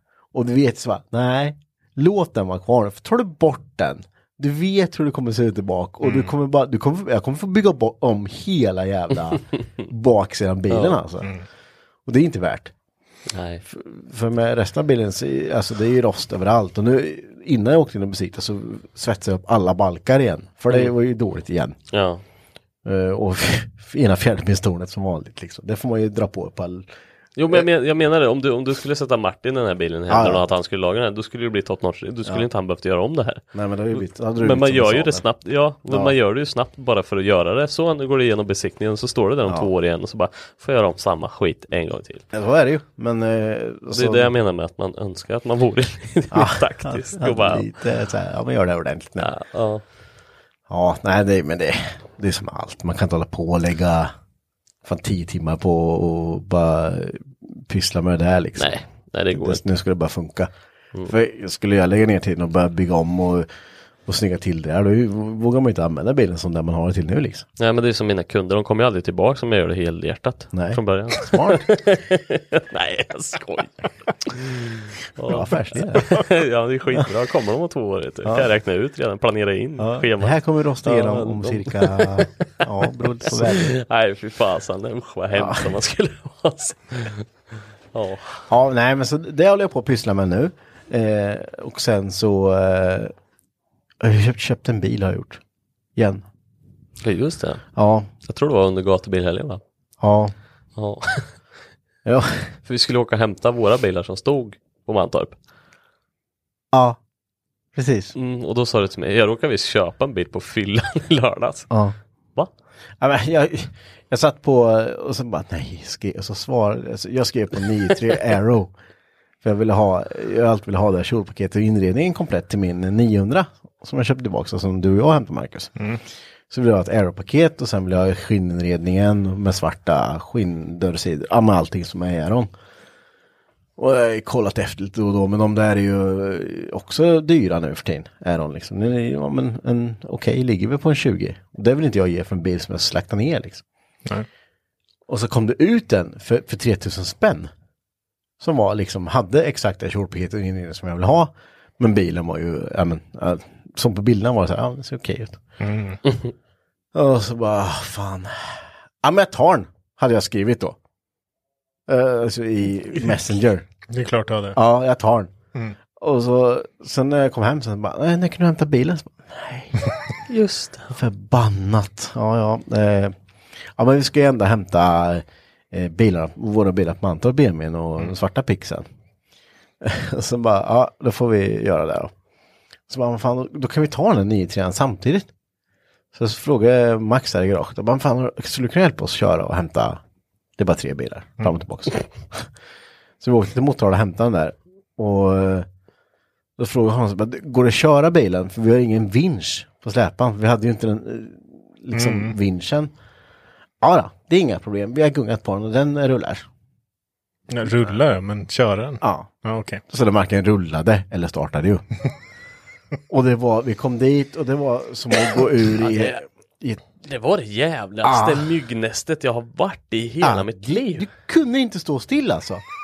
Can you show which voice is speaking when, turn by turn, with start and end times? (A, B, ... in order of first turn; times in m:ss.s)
0:00.3-0:11.3 A
0:06.0-0:06.3 B
0:10.7-0:11.0 C
0:12.1-0:12.7 A
0:13.3-0:13.6 C
0:13.7-0:21.8 A
0:21.9-0:22.2 C
0:22.8-0:26.9 A
0:27.4-0:33.4 C
0:30.1-0:30.4 A
0:33.5-0:35.3 A
0:34.0-0:42.2 C
0:35.9-0:36.2 A
0:42.3-0:44.3 A
0:43.9-0:47.7 C
0:46.3-0:49.3 A
0:49.2-0:49.8 C
0:50.7-0:54.1 A
0:54.8-1:00.5 A
0:58.6-0:59.6 C
1:01.0-1:03.5 A
1:04.1-1:07.5 A
1:07.6-1:22.3 C
1:10.5-1:11.7 A
1:15.2-1:16.2 A
1:19.8-1:23.8 A
1:23.2-1:27.3 C
1:25.3-1:25.7 A
1:27.9-1:28.4 C
1:28.5-1:33.1 A
1:34.0-1:35.4 A
1:36.0-1:36.3 A
1:37.0-1:37.6 C
1:37.8-1:38.1 A
1:38.2-1:39.6 C
1:40.0-1:40.3 A
1:40.8-1:41.4 C
1:42.0-1:42.5 A
1:42.6-1:45.4 C
1:46.7-1:47.0 A
1:47.8-1:48.1 A
1:48.2-1:51.7 C
1:51.7-1:52.0 A
1:53.0-1:58.7 A
1:59.4-2:05.8 A
2:06.5-2:12.5 A
2:13.8-2:23.6 A
2:25.1-2:27.5 A
2:28.4-2:35.4 A
2:35.6-2:36.0 B
2:36.9-2:40.8 A
2:41.9-2:43.7 A
2:43.9-2:44.6 B
2:44.6-2:45.3 A
2:46.0-2:49.9 A
2:50.3-2:51.0 C
2:50.9-2:53.2 A
2:53.8-2:58.9 A
2:59.8-3:02.1 A
3:02.9-3:05.3 A
3:06.1-3:10.0 A
3:10.6-3:12.5 A
3:13.2-3:15.7 A
3:16.6-3:22.9 A
3:21.9-3:22.4 B
3:23.8-3:26.5 A
3:27.5-3:29.8 B
3:29.0-3:29.3 A
3:29.9-3:31.9 A
3:33.1-3:36.9 A
3:35.8-3:36.2 C
3:37.0-3:41.1 C
3:38.0-3:38.6 A
3:40.2-3:42.6 A